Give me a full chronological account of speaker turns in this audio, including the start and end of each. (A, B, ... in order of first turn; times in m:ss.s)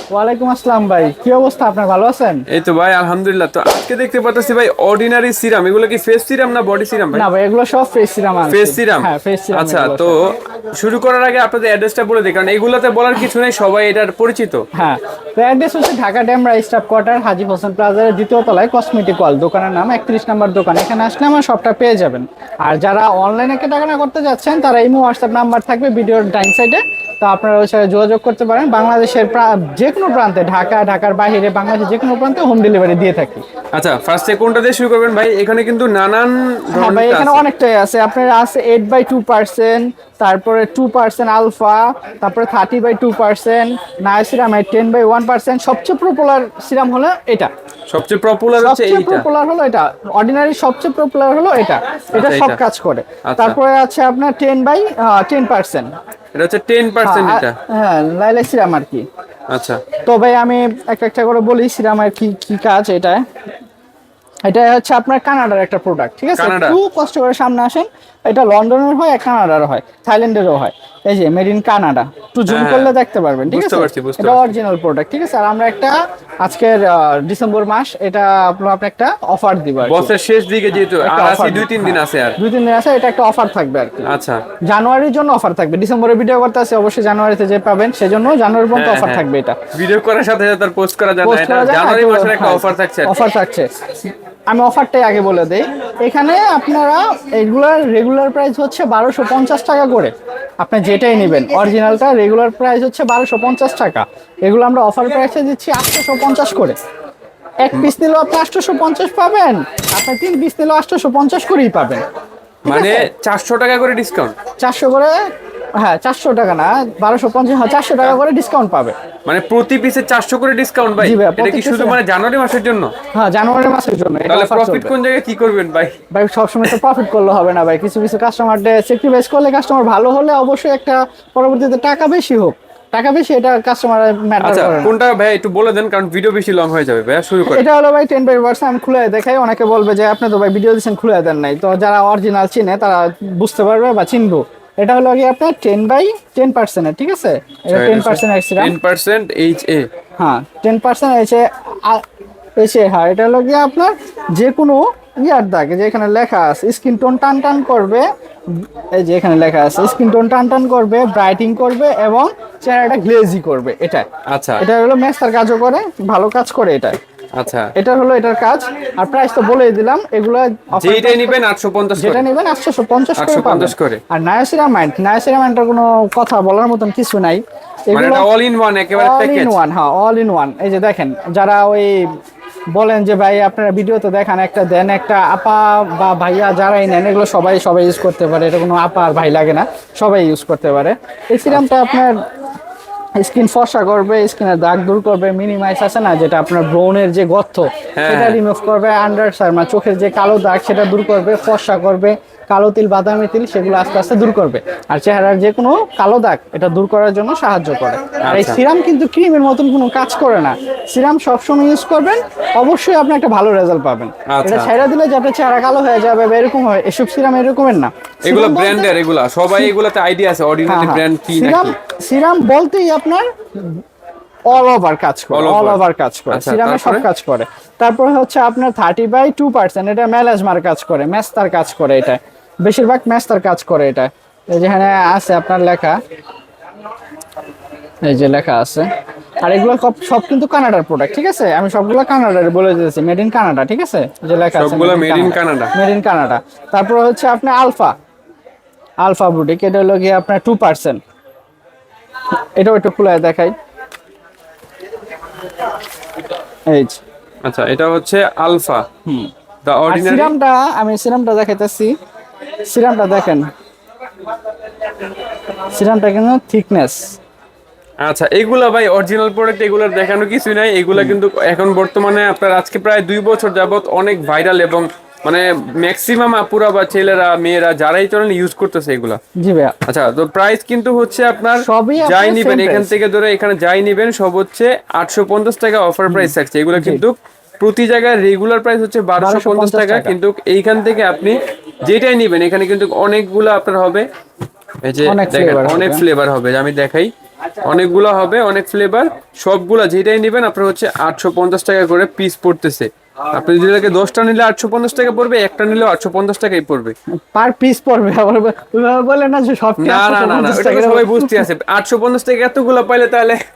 0:00.1-0:02.4 A
0:02.5-0:07.2 B
0:07.1-0:10.2 A
0:08.5-0:14.6 B
0:14.8-0:33.4 A
0:33.7-0:37.4 B
0:36.7-0:47.5 A
0:47.9-0:49.3 B
0:48.5-0:55.9 A
0:52.1-0:52.6 B
0:53.2-0:53.6 B
0:56.3-0:57.6 B
0:57.0-0:59.0 A
0:59.5-0:59.8 B
1:00.0-1:03.2 A
1:04.5-1:20.1 A
1:06.4-1:06.8 B
1:12.5-1:12.9 B
1:13.5-1:14.5 B
1:19.8-1:22.4 B
1:20.8-1:24.1 A
1:24.0-1:24.4 B
1:24.7-1:29.6 A
1:28.7-1:29.2 B
1:29.7-1:33.2 B
1:31.2-1:33.7 A
1:34.5-1:46.8 A
1:47.6-1:52.0 A
1:52.6-1:53.1 A
1:52.6-1:54.3 B
1:54.6-1:55.2 A
1:55.8-1:58.9 A
1:59.2-2:02.9 B
2:01.0-2:02.0 A
2:03.1-2:04.9 A
2:04.3-2:05.9 B
2:06.1-2:15.0 A
2:14.4-2:17.6 B
2:17.4-2:28.7 A
2:27.7-2:29.9 B
2:30.2-2:32.0 A
2:32.6-2:44.0 A
2:44.3-2:44.6 B
2:44.6-2:47.0 A
2:47.3-2:47.7 B
2:47.7-2:51.4 A
2:50.7-2:52.2 B
2:52.0-2:58.3 A
2:53.2-2:54.0 B
2:57.9-2:59.6 B
2:58.9-3:02.1 A
3:02.8-3:12.1 A
3:13.2-3:39.0 A
3:17.9-3:18.4 B
3:28.2-3:28.6 B
3:34.3-3:34.8 B
3:38.2-3:41.7 B
3:40.7-3:43.8 A
3:44.5-3:56.0 A
3:45.3-3:47.0 B
3:58.0-3:58.9 A
3:59.4-4:07.9 A
4:04.5-4:05.7 B
4:09.0-4:11.0 A
4:12.6-4:13.5 A
4:16.7-4:17.0 A
4:17.4-4:18.8 B
4:19.6-4:20.3 B
4:19.9-4:21.9 A
4:22.7-4:23.4 A
4:25.7-4:27.2 A
4:28.0-4:39.2 B
4:39.4-4:39.8 A
4:39.8-4:54.0 B
4:41.6-4:43.0 A
4:46.1-4:47.0 A
4:49.2-4:50.2 A
4:54.8-4:57.1 B
4:55.0-4:56.0 A
4:57.6-5:06.9 B
5:07.3-5:11.5 A
5:09.8-5:13.4 B